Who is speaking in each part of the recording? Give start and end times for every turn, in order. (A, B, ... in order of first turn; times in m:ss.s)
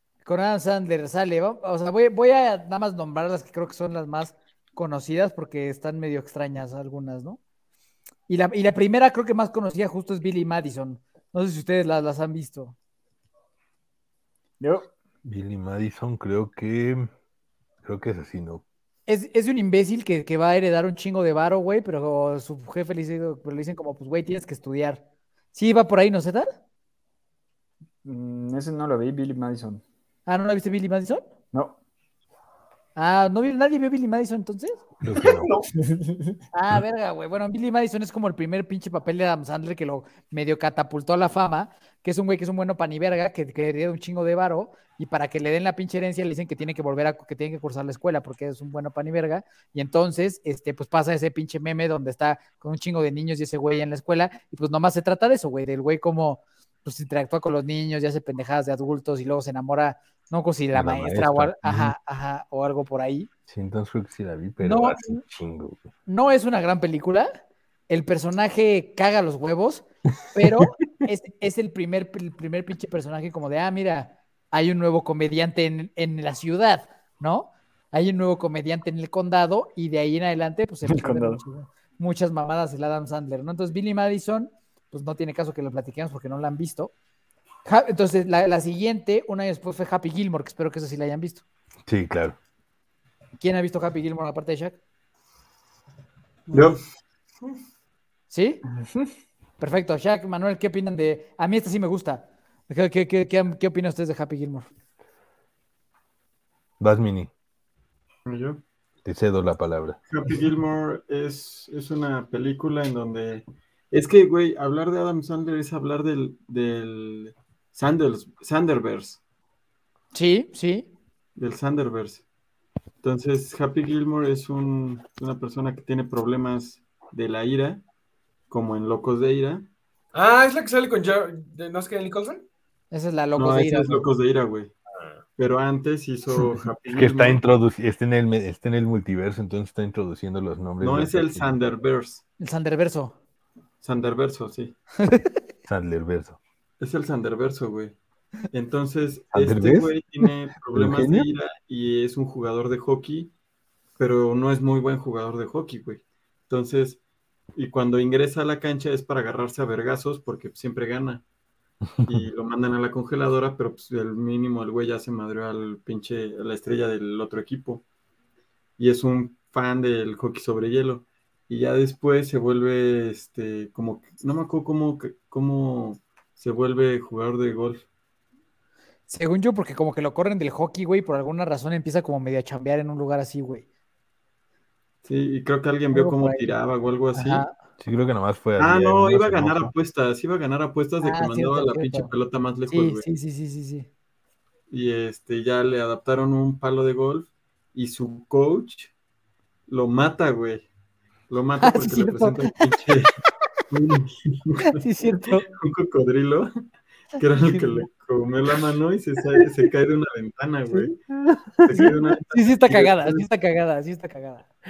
0:00.2-0:07.4 A
0:08.3-0:12.8 A
0:14.6-0:14.9 B
0:15.2-0:17.1 C
0:17.8-0:18.6 C
0:19.1-0:25.0 A
0:25.5-0:26.5 A
0:28.0-0:29.8 B
0:30.3-0:31.2 A
0:33.0-0:34.8 A
0:35.0-0:35.5 C
0:35.2-0:35.7 D
0:35.8-0:36.4 B
0:36.5-1:03.3 A
1:00.7-1:02.0 C
1:03.5-1:05.8 C
1:04.6-1:05.2 A
1:06.1-1:07.3 A
1:07.9-1:26.9 A
1:10.4-1:10.7 C
1:20.8-1:21.4 B
1:27.7-1:31.4 A
1:31.9-1:32.4 C
1:33.4-1:34.8 A
1:36.5-1:36.8 E
1:38.3-1:38.6 A
1:39.6-1:44.7 A
1:46.8-1:47.3 C
1:48.3-1:48.6 E
1:49.0-1:50.0 C
1:50.1-1:59.2 E
2:00.1-2:00.9 A
2:01.4-2:02.2 E
2:03.0-2:07.8 E
2:08.5-2:09.7 E
2:10.1-2:12.4 D
2:12.9-2:14.1 A
2:13.4-2:14.7 E
2:15.0-2:15.2 D
2:15.4-2:17.4 E
2:16.9-2:21.5 C
2:20.8-2:22.2 E
2:22.4-2:23.2 A
2:23.8-2:24.8 E
2:25.0-2:25.3 A
2:25.7-2:26.4 C
2:26.8-2:28.0 E
2:28.5-2:33.3 E
2:29.3-2:29.9 C
2:30.7-2:31.3 C
2:34.0-2:37.0 E
2:37.5-2:41.2 E
2:41.9-2:42.3 C
2:42.1-2:47.8 E
2:48.8-2:57.9 E
2:59.1-3:03.6 A
3:05.0-3:07.4 E
3:05.9-3:06.5 A
3:07.2-3:07.5 A
3:07.8-3:09.7 C
3:08.6-3:13.1 E
3:11.0-3:12.1 A
3:12.7-3:13.9 A
3:14.7-3:18.9 E
3:19.7-3:20.7 E
3:21.3-3:23.1 E
3:21.6-3:22.5 A
3:23.7-3:24.8 E
3:24.6-3:25.5 A
3:25.5-3:26.5 E
3:27.2-3:31.0 E
3:27.5-3:27.8 A
3:31.2-3:31.9 C
3:31.6-3:33.2 E
3:31.8-3:34.5 A